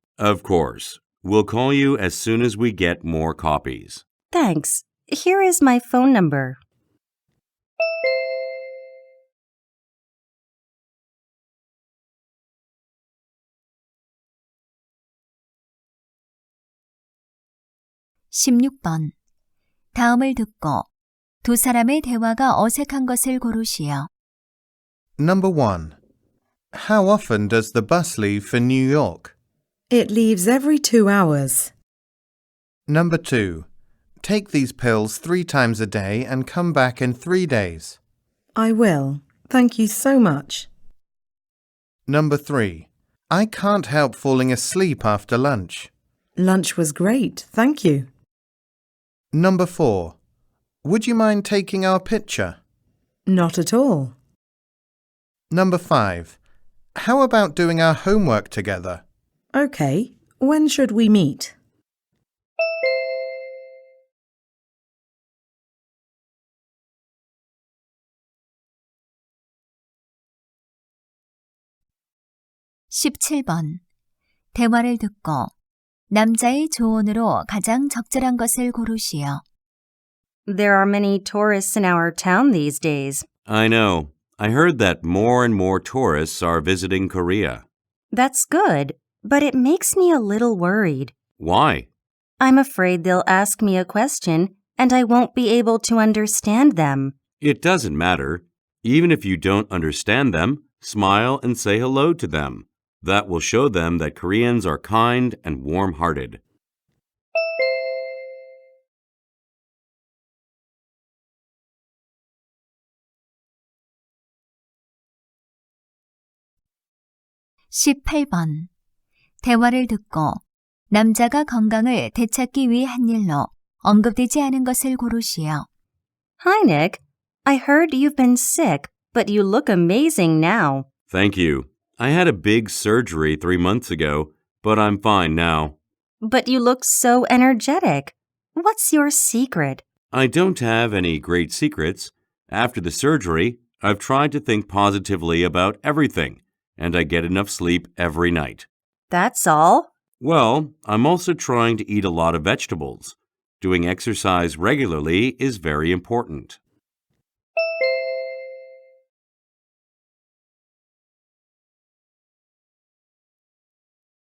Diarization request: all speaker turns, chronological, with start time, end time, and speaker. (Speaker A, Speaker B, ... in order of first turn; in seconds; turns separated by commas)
Speaker A: 0.2-4.0, Speaker B: 4.3-6.6, Speaker C: 18.3-19.1, Speaker C: 19.9-20.9, Speaker C: 21.4-24.1, Speaker D: 25.2-26.0, Speaker D: 26.7-29.3, Speaker E: 29.9-31.7, Speaker D: 32.9-33.7, Speaker D: 34.2-38.0, Speaker E: 38.5-40.7, Speaker D: 42.1-45.9, Speaker E: 46.4-48.1, Speaker D: 49.3-50.1, Speaker D: 50.8-52.6, Speaker E: 53.3-54.1, Speaker D: 55.5-56.4, Speaker D: 57.0-59.0, Speaker E: 59.5-61.5, Speaker C: 72.9-73.8, Speaker C: 74.5-75.5, Speaker C: 76.1-79.4, Speaker B: 80.5-83.2, Speaker A: 83.5-87.6, Speaker B: 88.1-91.1, Speaker A: 91.4-91.9, Speaker B: 92.4-97.1, Speaker A: 97.4-106.4, Speaker C: 117.7-118.7, Speaker C: 119.4-125.7, Speaker B: 126.4-130.9, Speaker A: 131.1-135.8, Speaker B: 136.2-139.8, Speaker A: 140.1-148.7, Speaker B: 149.1-149.9, Speaker A: 150.2-156.6